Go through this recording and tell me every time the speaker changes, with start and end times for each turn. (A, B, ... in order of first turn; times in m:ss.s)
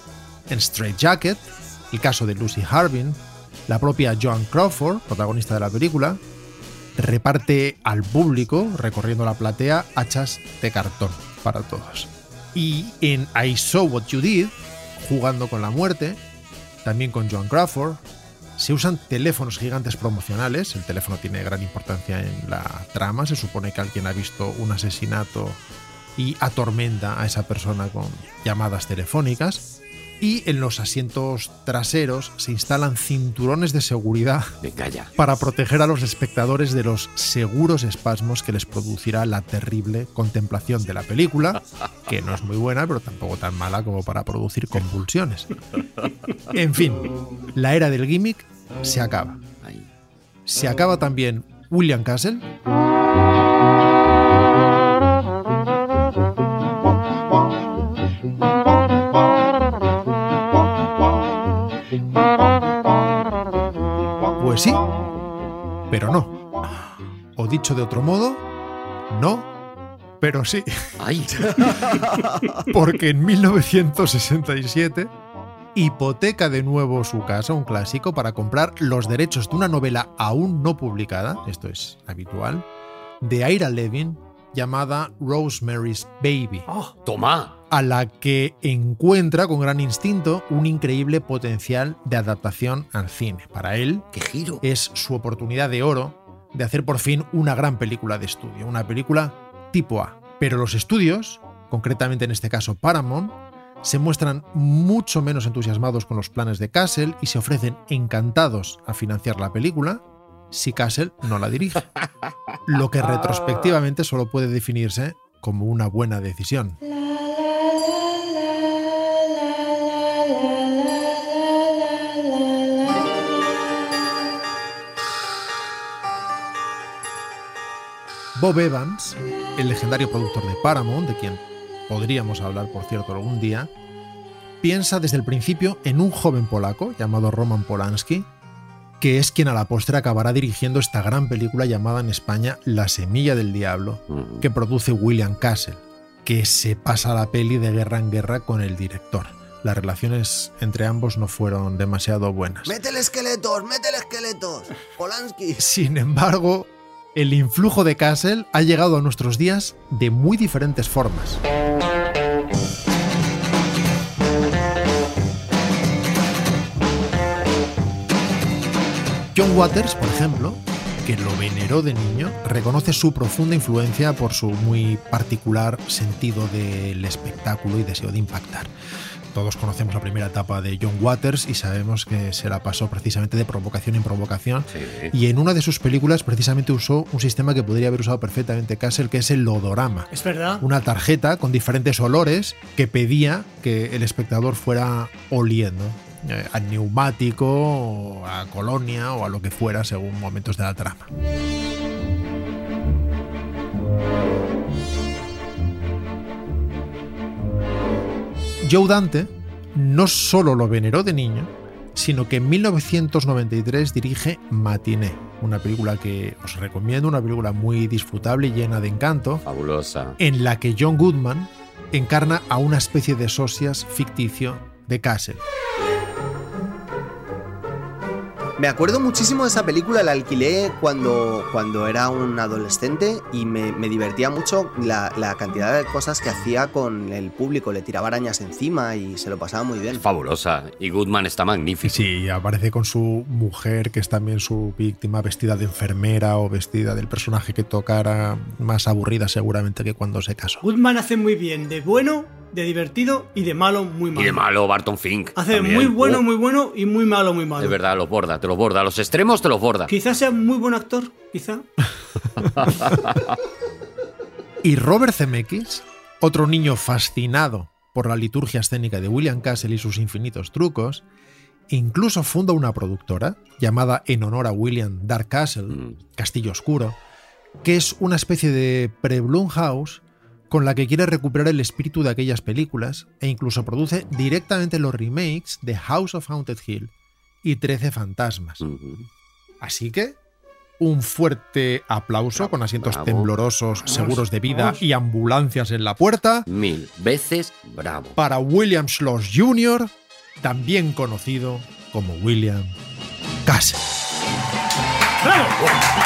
0:00.5-0:06.2 A
0:07.0-0:16.2 A
0:16.8-0:18.0 A
0:18.6-0:25.6 A
0:26.2-0:29.6 A
0:30.2-0:34.5 A
0:34.6-0:35.1 B
0:35.2-0:45.5 A
0:46.5-0:49.4 A
0:50.4-0:52.4 A
1:04.4-1:04.8 A
1:05.9-1:06.4 A
1:07.4-1:08.4 A
1:09.1-1:09.5 A
1:10.2-1:15.1 A
1:11.0-1:11.5 B
1:15.7-1:22.6 A
1:23.2-1:26.7 A
1:26.7-1:26.9 C
1:27.0-1:27.5 B
1:27.7-1:34.0 A
1:34.1-1:34.6 B
1:34.6-1:51.9 A
1:52.7-1:56.8 A
2:08.3-2:13.7 A
2:14.6-2:18.3 A
2:19.0-2:32.8 A
2:24.1-2:24.4 B
2:32.6-2:35.6 D
2:35.6-2:41.4 A
2:49.3-2:58.7 A
2:59.3-3:10.1 A
3:04.7-3:05.1 B
3:10.1-3:10.6 C
3:10.6-3:21.1 A
3:28.6-3:39.4 A
3:39.4-3:40.2 B
3:40.2-3:45.4 A
3:48.6-4:00.0 D
3:59.9-4:02.0 B
4:01.8-4:10.6 A
4:10.6-4:14.4 C
4:14.1-4:16.2 B
4:15.4-4:17.8 C
4:17.6-4:19.9 B
4:19.9-4:21.6 C
4:22.4-4:23.3 B
4:24.6-4:31.0 A
4:31.7-4:37.0 A
4:35.7-4:36.0 B
4:37.6-4:46.9 A
4:47.4-4:48.6 A
4:48.6-4:49.1 B
4:49.6-4:50.2 A
4:50.8-4:56.5 A
4:52.3-4:53.3 B
4:53.9-4:54.8 C
4:56.5-4:58.2 B
4:58.2-5:02.8 A
5:03.4-5:03.8 A
5:05.2-5:05.6 C